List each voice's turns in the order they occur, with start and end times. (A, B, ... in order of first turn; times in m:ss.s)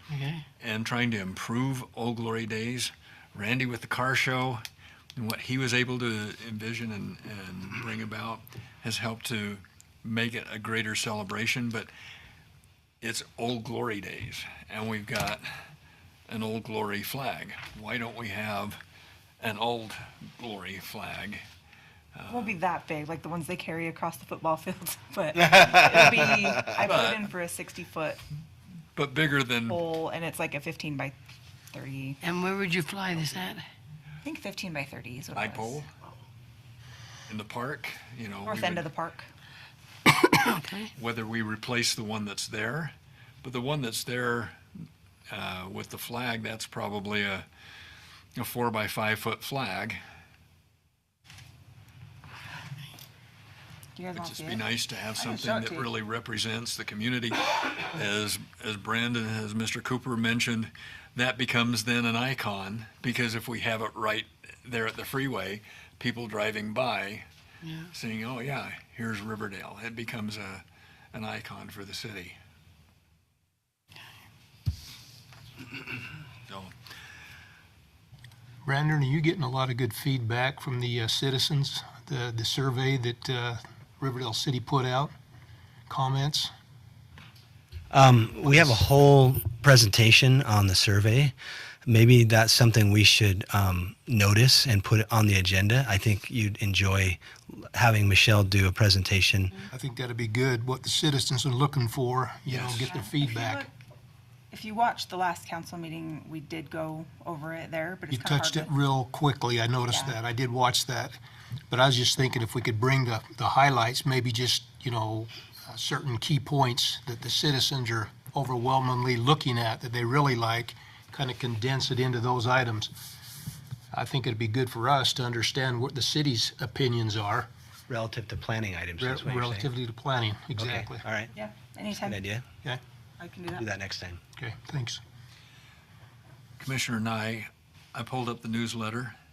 0:00.1-0:00.4 A
0:00.6-0:04.6 B
0:05.2-0:11.9 B
0:13.0-0:15.5 B
0:16.3-0:18.8 B
0:19.4-0:21.4 B
0:22.2-0:22.6 B
0:22.3-0:28.2 C
0:26.7-0:27.2 B
0:29.0-0:29.8 B
0:29.7-0:31.2 C
0:31.7-0:32.2 C
0:32.2-0:33.6 A
0:34.2-0:35.8 C
0:35.3-0:35.9 B
0:37.3-0:38.9 B
0:38.5-0:39.3 C
0:40.2-0:40.9 A
0:41.0-0:44.6 B
0:45.3-0:47.5 B
0:48.4-0:50.0 B
0:54.0-0:55.9 C
0:54.2-1:07.3 B
1:07.6-1:07.9 A
1:07.9-1:12.4 B
1:16.5-1:16.7 B
1:18.6-1:25.1 D
1:25.9-1:26.5 D
1:27.9-1:31.4 E
1:31.9-1:39.7 E
1:39.7-1:43.7 D
1:42.5-1:42.9 B
1:42.9-1:43.8 C
1:44.5-1:48.7 C
1:48.1-1:51.2 D
1:49.9-1:50.2 C
1:51.7-2:02.9 D
2:03.9-2:07.5 D
2:07.9-2:09.7 E
2:09.0-2:11.0 D
2:10.6-2:11.3 E
2:11.4-2:12.2 C
2:11.9-2:12.5 E
2:13.2-2:13.7 C
2:13.6-2:14.2 E
2:14.4-2:15.0 D
2:16.6-2:19.2 B